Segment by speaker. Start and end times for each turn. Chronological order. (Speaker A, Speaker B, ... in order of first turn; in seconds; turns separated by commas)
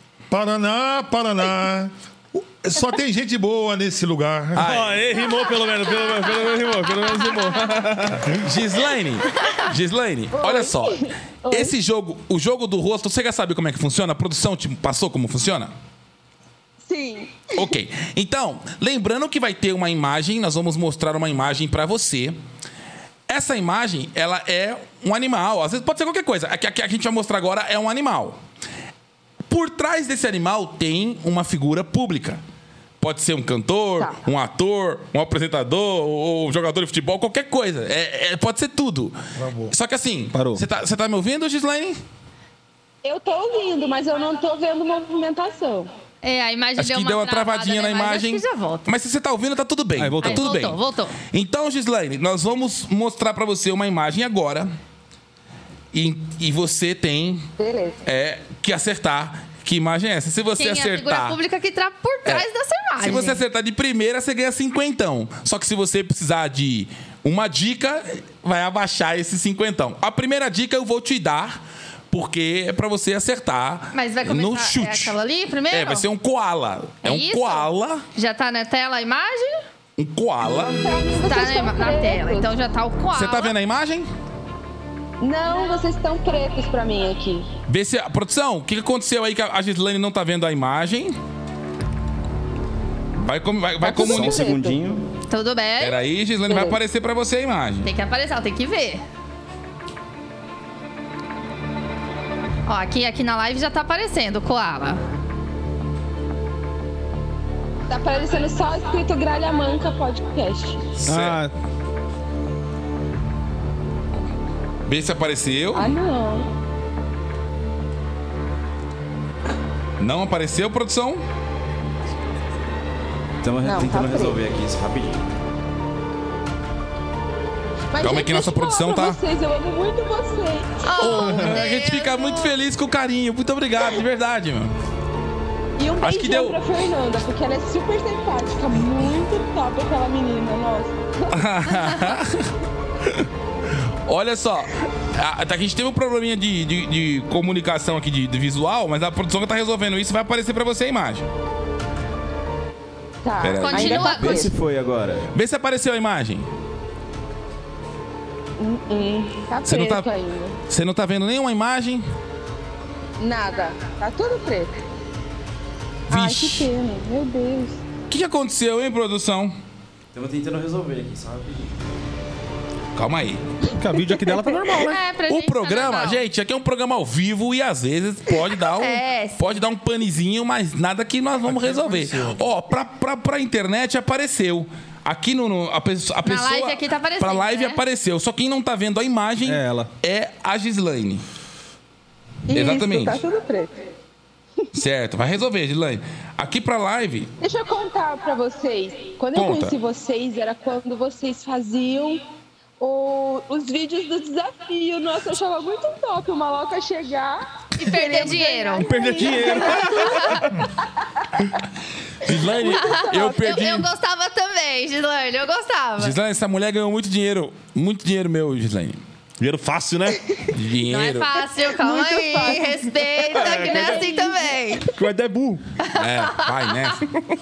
Speaker A: 0.3-4.8, Speaker B: 4.5-5.1, Speaker C: 4.6-8.3, Speaker B: 8.3-15.7, Speaker D: 10.3-11.8, Speaker D: 16.8-17.7, Speaker B: 17.6-22.4, Speaker B: 23.3-28.4, Speaker B: 29.5-32.4, Speaker B: 33.0-39.2, Speaker A: 39.4-39.8, Speaker B: 39.7-42.0, Speaker C: 40.3-40.6, Speaker D: 43.0-45.9, Speaker E: 46.2-48.9, Speaker B: 46.8-50.8, Speaker C: 50.0-50.5, Speaker E: 50.2-51.2, Speaker B: 51.3-54.7, Speaker B: 55.9-57.5, Speaker D: 57.6-58.0, Speaker B: 58.0-61.4, Speaker E: 60.6-63.4, Speaker B: 63.0-71.6, Speaker B: 72.1-75.2, Speaker E: 73.9-76.1, Speaker B: 75.7-78.0, Speaker E: 77.0-79.6, Speaker B: 80.0-80.8, Speaker D: 80.5-82.5, Speaker E: 81.2-83.5, Speaker B: 83.1-84.1, Speaker D: 85.2-87.5, Speaker B: 87.7-91.2, Speaker B: 93.2-94.4, Speaker D: 93.8-94.8, Speaker F: 93.9-95.1, Speaker E: 95.3-96.0, Speaker B: 95.8-97.9, Speaker D: 96.5-96.8, Speaker E: 97.8-99.0, Speaker E: 102.7-105.0, Speaker D: 107.9-110.9, Speaker B: 111.0-111.4, Speaker C: 111.1-111.5, Speaker B: 114.9-115.9, Speaker D: 115.8-116.5, Speaker B: 120.0-121.2, Speaker F: 123.4-125.2, Speaker D: 123.6-124.4, Speaker D: 127.9-130.8, Speaker B: 128.0-129.2, Speaker E: 130.8-132.5, Speaker B: 131.0-134.8, Speaker D: 135.8-141.3, Speaker B: 136.0-136.6, Speaker B: 141.3-142.5, Speaker B: 144.1-151.2, Speaker D: 153.2-154.5, Speaker B: 153.4-154.4, Speaker E: 153.6-154.4, Speaker F: 154.3-155.3, Speaker B: 155.3-156.5, Speaker D: 158.6-160.6, Speaker B: 159.7-160.1, Speaker B: 160.7-162.1, Speaker D: 163.2-164.7, Speaker B: 166.1-166.7, Speaker D: 166.1-167.8, Speaker B: 168.1-169.6, Speaker F: 170.1-171.8, Speaker B: 172.9-173.4, Speaker C: 173.7-174.9, Speaker D: 174.3-174.9, Speaker E: 174.8-176.2, Speaker B: 175.3-191.2, Speaker E: 178.8-179.4, Speaker E: 186.2-187.8, Speaker C: 189.4-189.9, Speaker D: 192.5-193.8, Speaker B: 192.5-193.2, Speaker B: 194.7-197.3, Speaker D: 197.4-202.2, Speaker B: 199.3-199.8, Speaker D: 202.8-210.5, Speaker E: 207.8-208.9, Speaker C: 208.8-210.5, Speaker E: 209.5-210.4, Speaker B: 212.2-213.9, Speaker D: 212.2-213.6, Speaker E: 212.7-216.2, Speaker B: 216.0-219.0, Speaker C: 219.4-220.2, Speaker B: 220.5-221.3, Speaker E: 220.9-224.9, Speaker D: 221.6-224.6, Speaker C: 223.4-224.0, Speaker C: 224.9-225.6, Speaker E: 225.8-226.9, Speaker B: 226.0-227.1